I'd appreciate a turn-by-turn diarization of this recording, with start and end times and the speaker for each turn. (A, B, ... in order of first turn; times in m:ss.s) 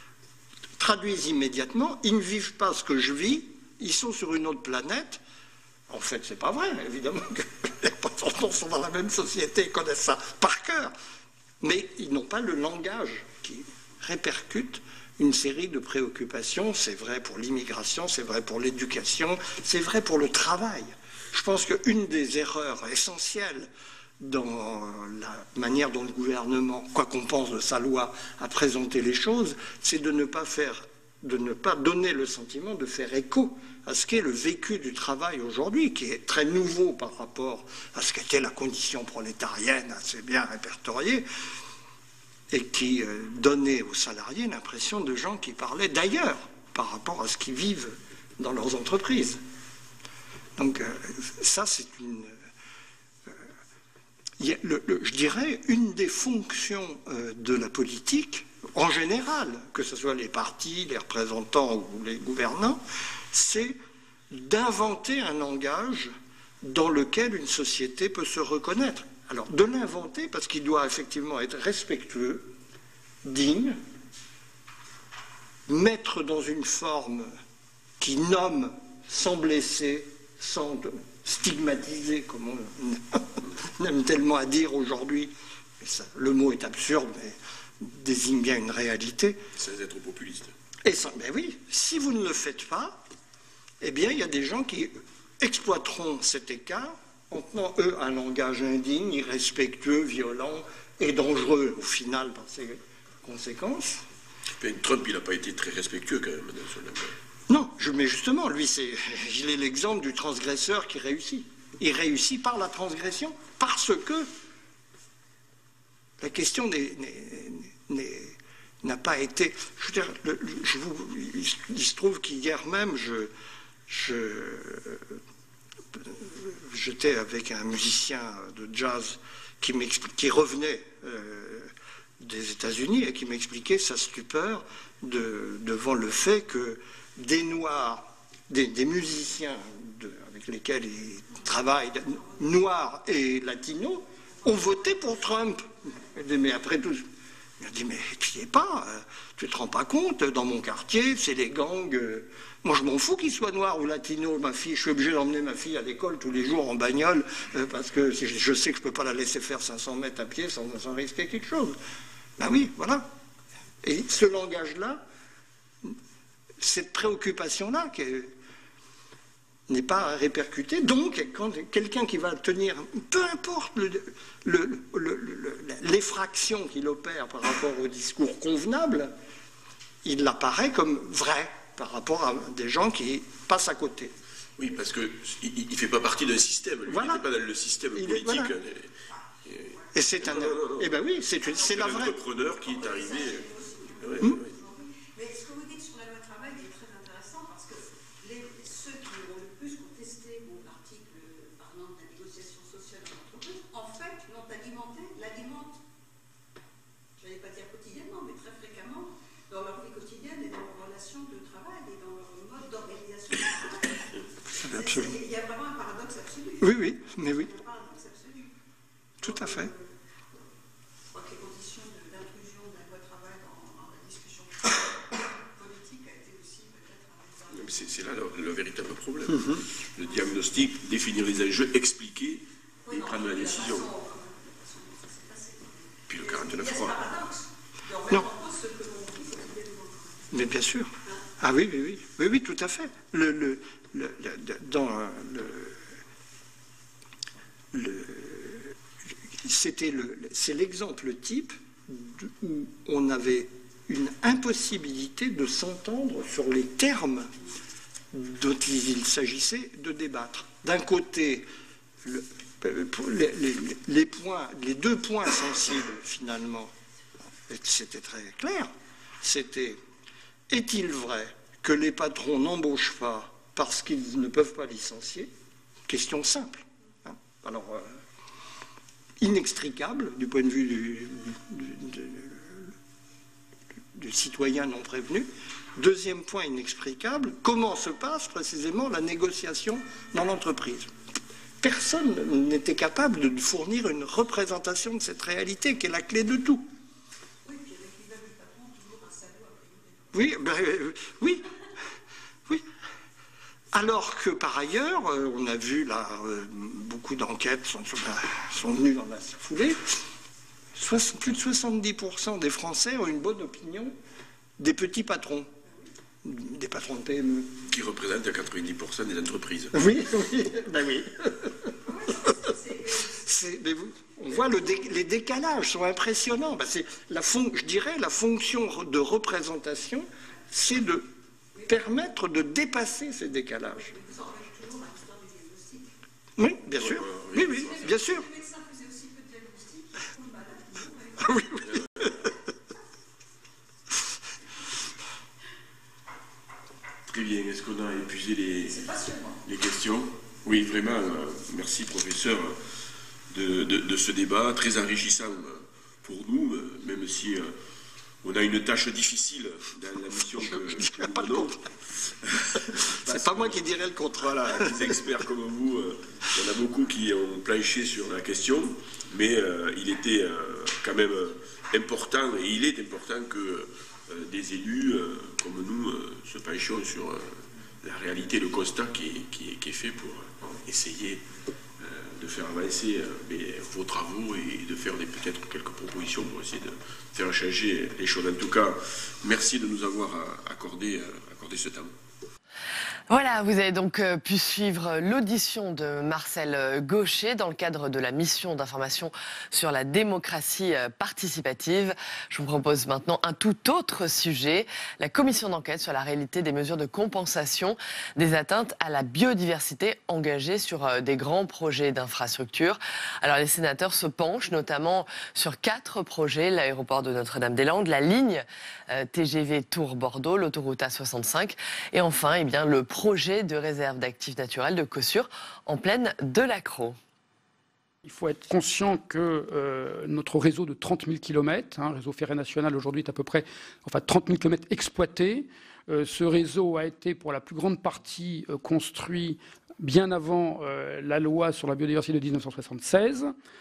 0:00.8-0:05.2 A
0:05.9-0:10.9 A
0:11.6-0:41.2 A
0:42.5-0:49.4 A
0:50.6-0:52.3 A
0:54.4-1:03.8 A
1:04.3-1:12.5 A
1:13.2-1:13.8 A
1:15.7-1:17.3 A
1:18.0-1:29.4 A
1:29.5-1:30.5 B
1:30.8-1:33.0 A
1:33.8-1:44.0 A
1:44.6-1:47.1 B
1:47.5-1:54.3 A
1:56.2-2:03.3 A
2:03.9-2:05.1 A
2:06.0-2:27.1 A
2:27.6-2:41.8 A
2:42.4-2:43.1 A
2:43.8-2:45.0 A
2:46.6-2:48.3 A
2:49.7-2:59.1 A
3:00.0-3:04.1 A
3:04.6-3:10.9 B
3:06.9-3:07.2 A
3:07.9-3:08.6 A
3:09.9-3:12.2 A
3:11.4-3:14.5 B
3:21.6-3:22.0 C
3:23.7-3:25.7 C
3:28.1-3:29.0 C
3:30.0-3:30.4 C
3:31.2-3:32.9 C
3:34.6-3:35.2 A
3:36.6-3:37.5 A
3:39.2-3:39.7 A
3:41.4-3:43.5 C
3:47.5-3:54.0 B
3:56.1-3:57.2 B
4:00.3-4:05.8 A
4:07.7-4:08.7 A
4:09.4-4:17.3 A
4:18.1-4:21.5 A
4:22.0-4:26.7 A
4:27.5-4:29.8 A
4:30.5-4:35.3 A
4:35.9-4:37.9 A
4:39.2-4:42.7 A
4:43.9-4:50.9 A
4:51.6-4:56.7 A
5:00.1-5:01.5 A
5:03.7-5:10.0 A
5:10.7-5:13.9 A
5:14.6-5:15.5 A
5:16.2-5:17.5 A
5:17.7-5:19.8 B
5:19.7-5:34.0 A
5:36.4-5:38.3 A
5:36.8-5:38.0 B
5:41.2-5:42.3 A
5:47.1-5:52.6 B
5:53.3-5:57.5 B
5:58.2-6:01.6 B
6:00.4-6:01.7 A
6:02.3-6:21.2 B
6:02.7-6:04.8 A
6:21.8-6:31.9 B
6:33.1-7:07.0 D
7:08.0-7:23.3 E